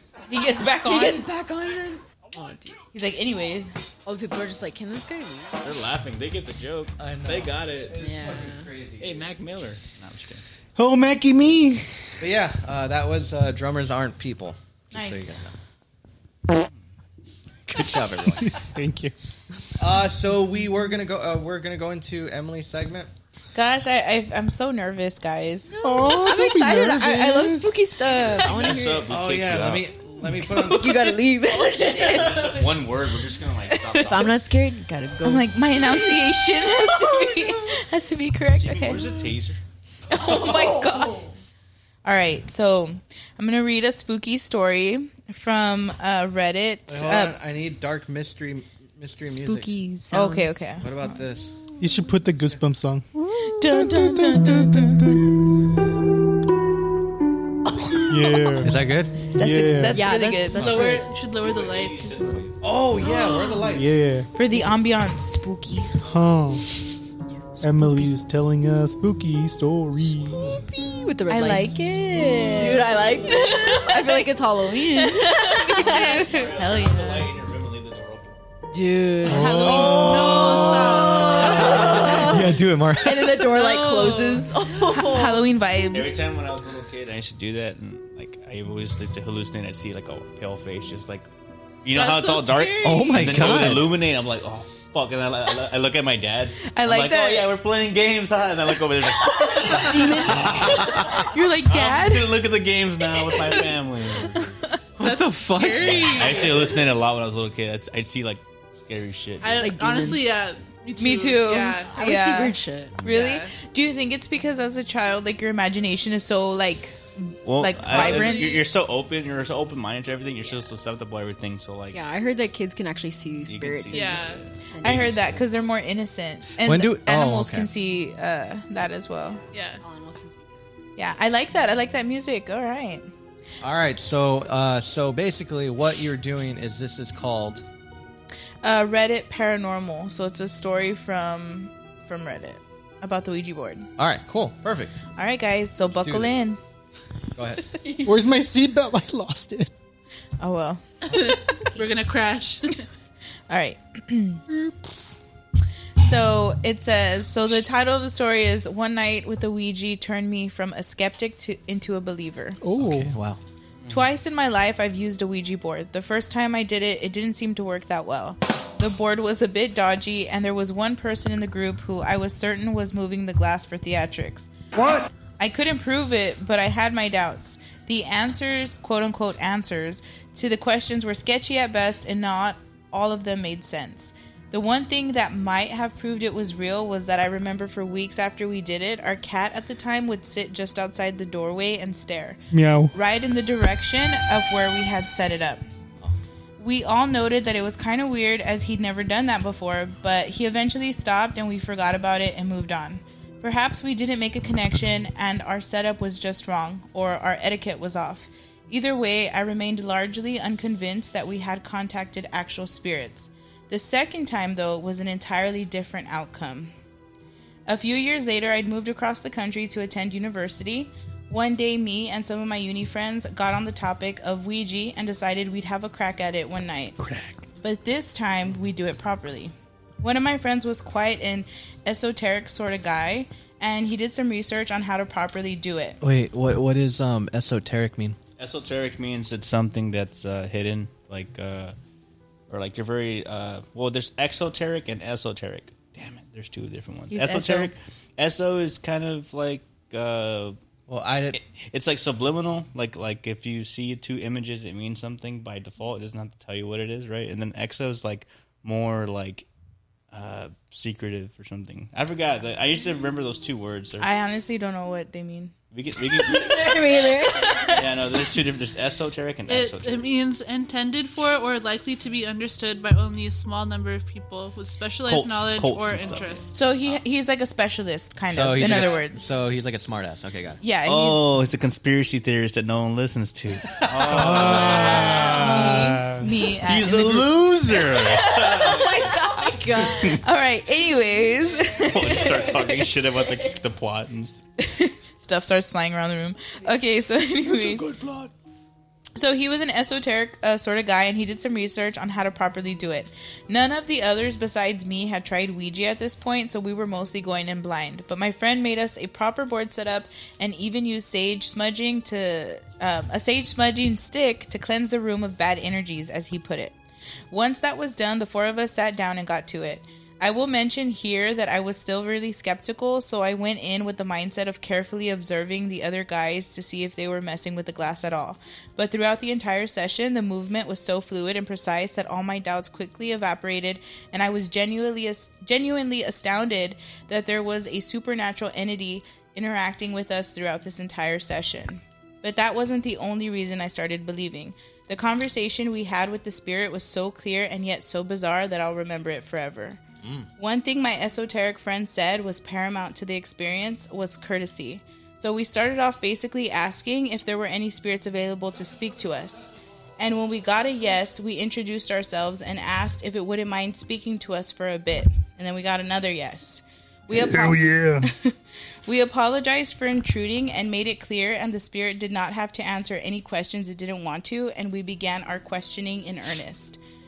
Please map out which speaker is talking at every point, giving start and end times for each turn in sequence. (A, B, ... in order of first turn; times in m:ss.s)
0:00.3-0:01.2 A
0:00.8-0:02.8 B
0:02.9-0:03.7 A
0:04.0-0:05.7 B
0:05.6-0:08.0 C
0:07.0-0:09.2 D
0:08.0-0:08.7 B
0:09.0-0:10.4 C
0:10.8-0:11.9 E
0:12.2-0:15.5 D
0:14.9-0:15.4 A
0:17.7-0:18.6 D
0:18.4-0:19.1 E
0:19.8-0:23.1 D
0:23.5-0:25.8 A
0:25.8-0:27.8 E
0:26.0-0:29.1 B
0:28.2-0:28.8 A
0:28.3-0:29.9 C
0:29.1-0:31.1 D
0:30.4-0:32.7 A
0:30.6-0:32.6 B
0:32.0-0:34.4 C
0:34.0-0:35.5 B
0:35.2-0:39.1 A
0:38.6-0:39.6 C
0:40.1-0:41.3 A
0:40.3-0:41.1 B
0:42.0-0:47.3 A
0:46.9-0:49.7 D
0:49.2-0:50.7 B
0:50.1-0:51.0 A
0:50.8-0:51.6 D
0:51.8-0:55.2 E
0:53.4-0:55.2 A
0:58.1-0:58.8 E
0:58.6-0:59.2 D
0:59.3-1:00.1 E
0:59.3-1:00.9 A
0:59.9-1:01.1 B
1:00.5-1:02.4 F
1:00.6-1:01.0 D
1:01.3-1:02.6 C
1:02.6-1:03.9 D
1:03.6-1:04.3 E
1:04.3-1:06.0 A
1:06.0-1:06.6 E
1:07.6-1:07.9 B
1:07.6-1:10.6 E
1:10.7-1:17.3 B
1:11.3-1:14.2 A
1:15.0-1:16.2 A
1:15.7-1:18.3 C
1:15.7-1:16.5 F
1:18.7-1:25.5 B
1:19.2-1:20.2 E
1:19.4-1:21.3 A
1:19.5-1:21.9 F
1:19.5-1:23.4 D
1:23.4-1:26.2 A
1:25.9-1:31.3 C
1:31.8-1:44.6 C
1:32.0-1:33.1 F
1:32.0-1:33.5 A
1:32.8-1:34.0 D
1:36.7-1:37.5 A
1:39.2-1:42.4 A
1:39.7-1:40.9 B
1:40.4-1:41.2 D
1:43.2-1:43.8 A
1:44.4-1:44.8 A
1:45.0-1:46.6 D
1:45.0-1:46.8 F
1:45.7-1:49.5 C
1:49.4-1:51.9 F
1:49.5-1:50.2 B
1:51.0-1:58.6 A
1:51.9-1:53.0 B
1:53.0-1:53.5 F
1:57.4-2:02.0 C
1:57.9-1:58.6 F
2:01.9-2:05.0 B
2:03.4-2:05.4 C
2:03.9-2:04.4 F
2:04.8-2:09.4 A
2:06.6-2:07.7 D
2:09.5-2:09.8 F
2:09.5-2:10.7 B
2:11.0-2:13.1 A
2:13.6-2:17.6 D
2:18.6-2:23.9 A
2:24.0-2:24.9 D
2:25.1-2:26.6 A
2:25.8-2:26.4 D
2:27.3-2:27.6 D
2:28.0-2:29.7 E
2:30.4-2:30.8 A
2:31.0-2:32.8 F
2:33.5-2:34.4 A
2:36.0-2:42.6 A
2:42.6-2:43.1 E
2:42.8-2:43.4 D
2:43.9-2:54.5 A
2:55.4-3:12.4 A
3:12.5-3:12.9 E
3:12.9-3:15.6 A
3:16.6-3:36.7 A
3:37.7-3:47.0 A
3:47.6-3:56.0 A
3:56.0-3:58.2 D
3:58.4-4:01.8 C
4:02.5-4:10.6 C
4:07.1-4:07.7 A
4:10.9-4:11.4 D
4:11.3-4:19.4 C
4:20.1-4:24.1 C
4:24.0-4:25.5 A
4:25.7-4:26.8 C
4:26.2-4:27.8 B
4:27.3-4:27.9 A
4:27.7-4:30.1 C
4:29.5-4:36.6 F
4:35.0-4:37.0 C
4:36.5-4:39.4 A
4:38.3-4:40.6 D
4:38.6-4:39.0 C
4:40.6-4:41.3 A
4:40.8-4:45.4 C
4:43.9-4:44.9 D
4:44.0-4:46.3 E
4:44.3-4:53.0 A
4:46.6-4:49.1 C
4:49.2-4:50.2 B
4:49.8-4:50.2 C
4:51.8-4:54.3 C
4:54.6-4:57.9 A
4:57.5-4:58.3 C
4:59.2-5:16.8 A
5:17.3-5:49.8 A
5:50.0-5:50.3 D
5:50.4-6:16.8 A
6:07.1-6:08.1 E